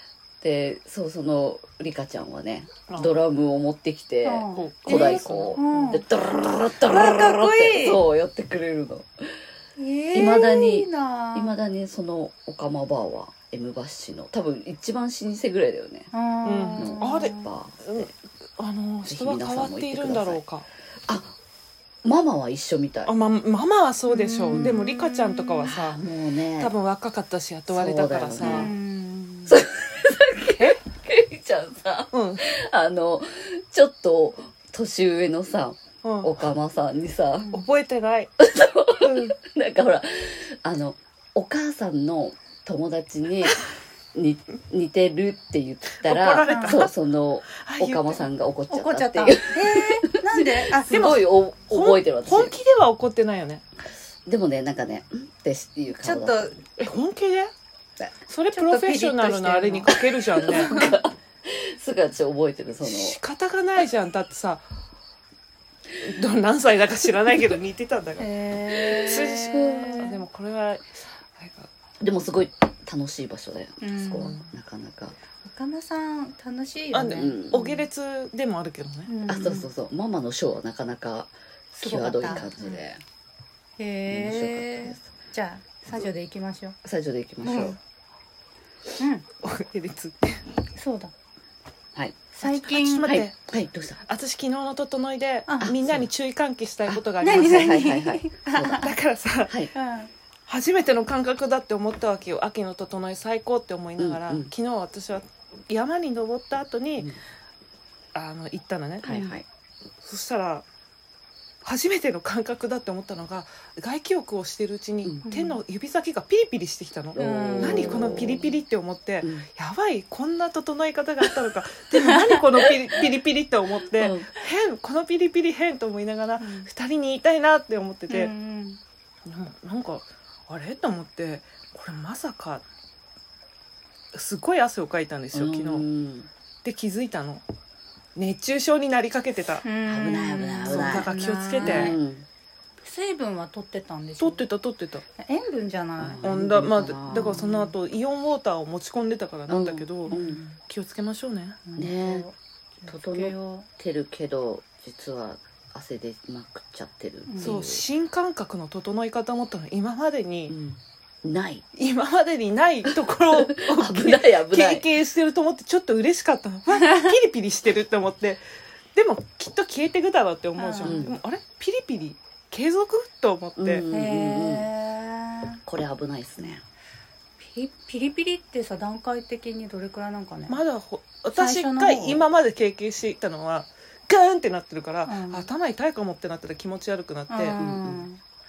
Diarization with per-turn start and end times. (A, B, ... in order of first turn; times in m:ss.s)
0:00.4-0:09.4 A
0:04.2-0:06.0 B
0:04.5-0:06.0 C
0:06.8-0:08.0 B
0:09.8-0:11.6 B
0:10.1-0:16.1 A
0:16.1-0:17.5 B
0:16.4-0:20.7 C
0:16.8-0:18.1 A
0:19.1-0:20.4 A
0:21.1-0:21.3 A
0:22.0-0:23.1 A
0:23.0-0:26.0 C
0:24.1-0:25.7 B
0:25.7-0:26.7 A
0:26.6-0:28.7 C
0:27.7-0:28.8 A
0:28.4-0:29.6 B
0:29.5-0:37.6 A
0:32.1-0:32.4 C
0:36.0-0:36.4 C
0:37.5-0:38.3 C
0:38.4-0:43.6 A
0:39.0-0:39.4 C
0:44.1-0:52.5 A
0:46.0-0:46.9 C
0:46.4-0:46.8 B
0:47.6-0:48.2 C
0:48.7-0:51.1 B
0:50.9-0:53.6 C
0:54.3-0:56.6 A
0:56.0-0:56.6 B
0:56.8-0:57.5 C
0:58.3-1:00.7 C
0:58.5-1:01.0 B
0:59.9-1:03.2 A
1:02.8-1:04.6 C
1:06.0-1:11.7 C
1:08.2-1:10.2 B
1:09.0-1:10.1 A
1:12.0-1:15.2 A
1:13.8-1:14.4 B
1:14.2-1:14.5 C
1:15.4-1:17.8 B
1:16.9-1:19.1 C
1:17.2-1:17.7 A
1:19.1-1:19.7 B
1:19.3-1:23.0 A
1:21.8-1:22.8 B
1:23.8-1:26.8 B
1:24.1-1:25.0 A
1:26.8-1:27.8 A
1:27.4-1:27.8 B
1:29.0-1:29.3 B
1:29.4-1:30.4 C
1:30.8-1:31.1 B
1:32.0-1:32.3 A
1:32.3-1:33.1 B
1:32.4-1:33.4 C
1:33.0-1:34.0 A
1:34.1-1:37.8 C
1:35.5-1:35.7 B
1:35.6-1:36.1 A
1:36.9-1:38.9 A
1:37.2-1:38.9 B
1:38.8-1:39.6 C
1:39.5-1:39.7 A
1:39.7-1:40.1 B
1:40.5-1:47.1 C
1:44.0-1:44.5 A
1:48.2-1:49.2 C
1:49.0-1:49.4 A
1:49.1-1:49.4 B
1:50.0-1:50.6 C
1:51.6-2:08.3 C
1:55.3-1:55.6 B
1:57.2-1:58.4 B
1:57.2-1:58.4 A
1:59.2-1:59.5 A
2:04.0-2:04.3 A
2:06.4-2:06.7 B
2:08.1-2:08.8 B
2:09.3-2:12.6 C
2:14.1-2:15.9 C
2:15.3-2:16.3 A
2:16.6-2:17.4 C
2:18.2-2:19.6 C
2:19.6-2:22.0 B
2:19.9-2:21.1 A
2:20.7-2:22.0 C
2:21.6-2:22.3 A
2:22.8-2:24.5 B
2:24.2-2:25.0 C
2:25.2-2:26.3 B
2:26.0-2:27.5 A
2:26.2-2:31.6 C
2:27.1-2:27.7 B
2:29.5-2:30.4 A
2:30.1-2:30.6 B
2:31.7-2:33.7 B
2:31.8-2:32.3 A
2:32.9-2:37.8 A
2:37.3-2:37.6 B
2:37.4-2:40.5 C
2:40.5-2:41.6 A
2:41.8-2:48.4 C
2:43.3-2:44.9 A
2:46.7-2:47.1 B
2:49.0-2:53.8 C
2:50.6-2:51.0 B
2:50.8-2:51.2 A
2:53.6-2:54.7 A
2:53.9-2:55.6 B
2:55.7-2:56.6 A
2:57.4-3:00.6 B
3:00.5-3:07.6 C
3:01.3-3:02.2 B
3:05.1-3:05.5 B
3:07.3-3:08.2 B
3:07.6-3:08.1 A